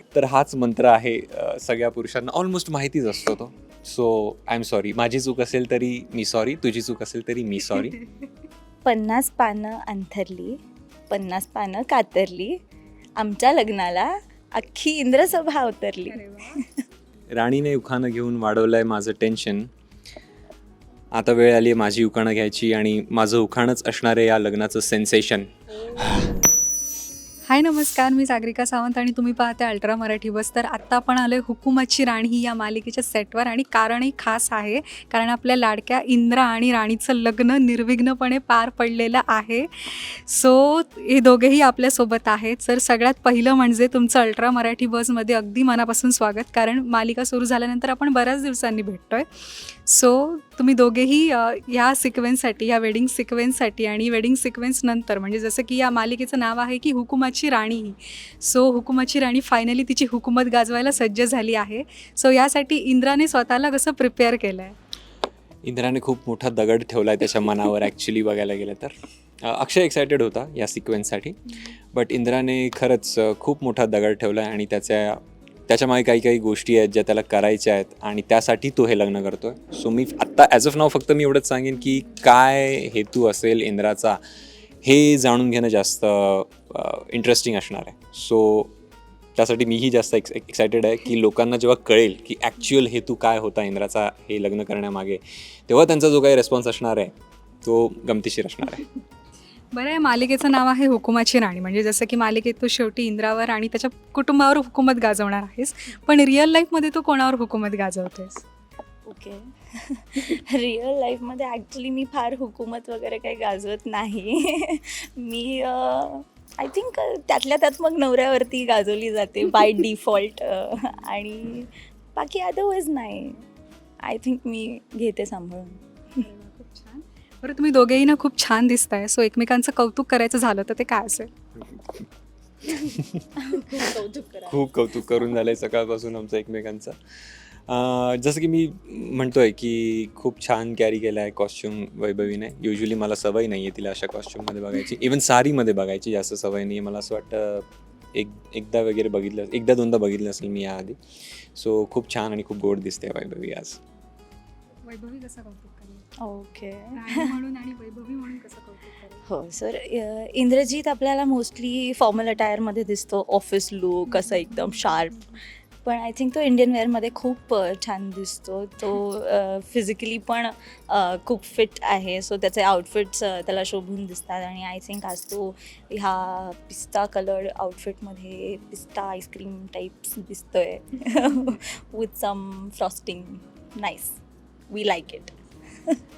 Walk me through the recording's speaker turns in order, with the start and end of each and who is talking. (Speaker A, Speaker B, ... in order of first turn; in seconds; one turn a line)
Speaker A: 0.1-8.0
Speaker B: 8.9-12.6
Speaker B: 13.2-16.8
Speaker C: 16.1-16.6
Speaker A: 17.3-19.7
Speaker A: 21.1-25.5
Speaker C: 25.8-26.4
Speaker C: 27.5-64.8
Speaker A: 65.6-84.2
Speaker A: 84.8-88.7
Speaker A: 89.3-97.1
Speaker A: 97.6-98.9
Speaker C: 99.7-108.4
Speaker B: 109.1-123.4
Speaker B: 124.0-126.2
Speaker C: 126.2-131.3
Speaker A: 131.6-132.0
Speaker A: 132.7-133.3
Speaker B: 133.4-135.2
Speaker A: 134.5-151.0
Speaker A: 151.6-153.8
Speaker C: 154.8-156.1
Speaker B: 156.2-157.4
Speaker C: 156.9-159.3
Speaker B: 159.3-186.0
Speaker C: 164.1-164.9